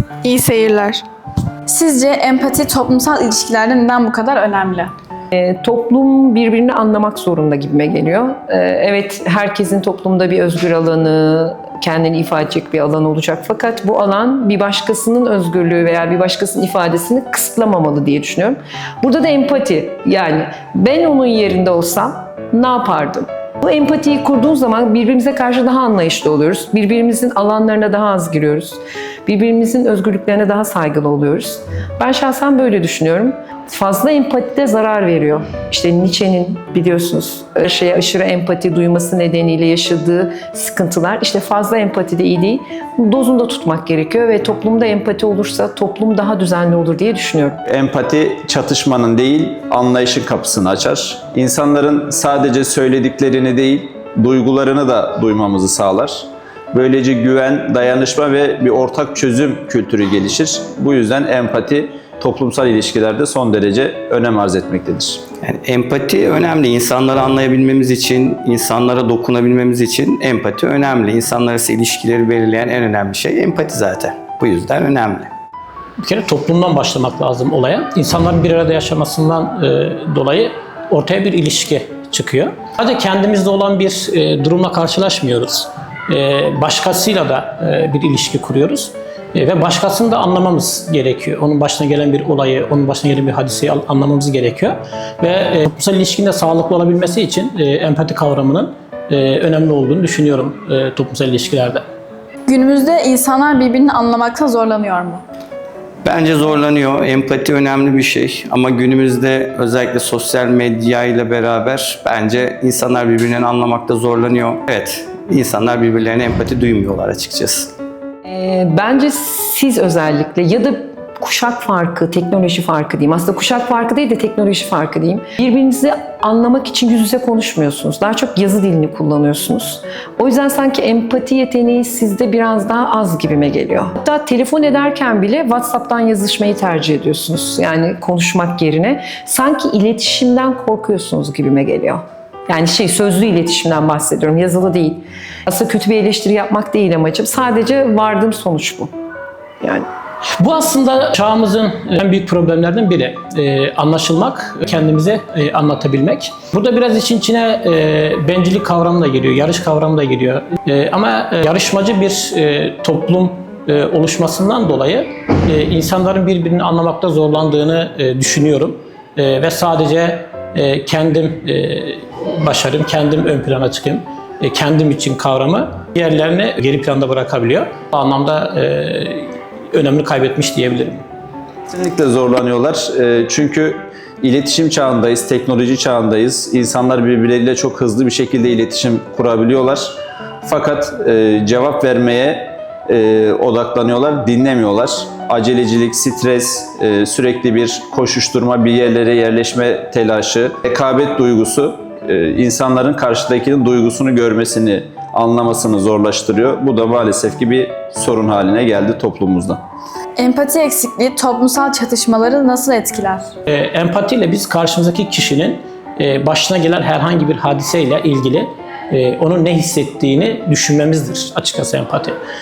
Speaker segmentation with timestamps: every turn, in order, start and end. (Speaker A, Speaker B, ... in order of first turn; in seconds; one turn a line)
Speaker A: 0.2-1.0
Speaker A: 1.7-4.9
Speaker B: 5.3-47.6
Speaker C: 47.6-65.2
Speaker D: 65.4-75.3
Speaker E: 76.0-101.8
Speaker A: 102.5-105.2
Speaker D: 106.0-117.7
Speaker B: 118.2-148.9
Speaker B: 149.6-149.8
Speaker E: 150.4-181.0
Speaker C: 181.7-209.6
Speaker A: 210.2-213.3
Speaker E: 213.5-222.2